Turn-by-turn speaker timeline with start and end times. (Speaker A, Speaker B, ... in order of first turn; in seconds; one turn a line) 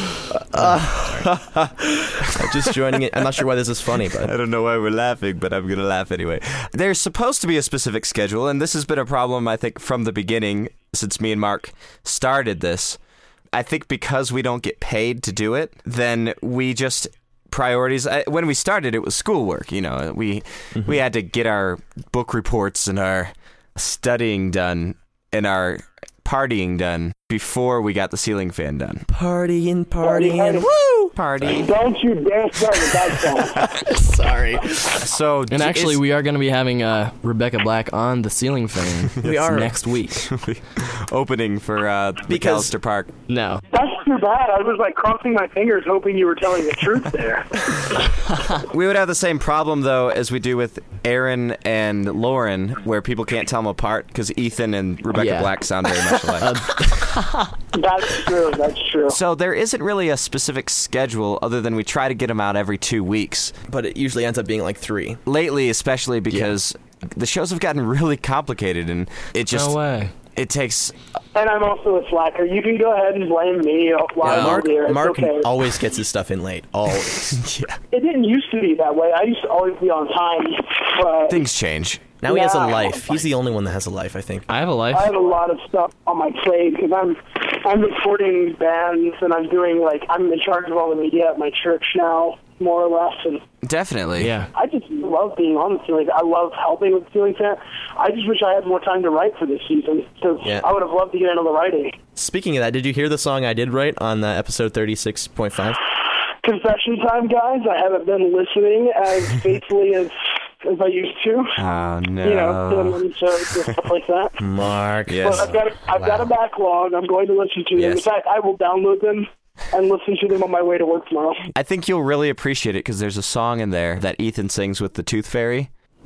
Speaker A: 0.3-1.3
Speaker B: 1.2-2.5
Speaker A: 2.3-4.3
Speaker B: 4.2-13.0
Speaker B: 13.5-29.1
Speaker A: 29.1-30.9
Speaker C: 30.0-30.7
Speaker B: 31.1-31.7
Speaker C: 31.6-33.7
Speaker A: 33.9-34.6
Speaker B: 34.8-36.0
Speaker D: 35.5-40.2
Speaker A: 39.2-39.7
Speaker B: 40.2-43.1
Speaker A: 42.3-42.7
Speaker D: 43.3-43.6
Speaker C: 43.7-47.8
Speaker B: 48.7-56.5
Speaker D: 55.1-57.5
Speaker C: 57.7-59.2
Speaker B: 59.1-63.5
Speaker A: 63.7-65.2
Speaker B: 65.3-69.8
Speaker D: 69.5-70.1
Speaker B: 70.3-71.0
Speaker C: 71.3-75.5
Speaker A: 74.2-77.4
Speaker B: 74.2-74.6
Speaker B: 77.3-77.8
Speaker C: 77.9-81.4
Speaker B: 81.3-82.1
Speaker A: 82.2-84.5
Speaker C: 82.2-83.0
Speaker D: 84.5-85.1
Speaker C: 84.9-93.4
Speaker B: 93.6-94.3
Speaker D: 94.2-94.5
Speaker C: 94.5-102.0
Speaker A: 102.2-105.8
Speaker C: 106.4-111.6
Speaker B: 111.6-113.0
Speaker C: 112.2-114.4
Speaker A: 114.4-115.4
Speaker B: 115.1-115.5
Speaker C: 115.2-121.4
Speaker B: 117.8-118.0
Speaker B: 121.5-125.7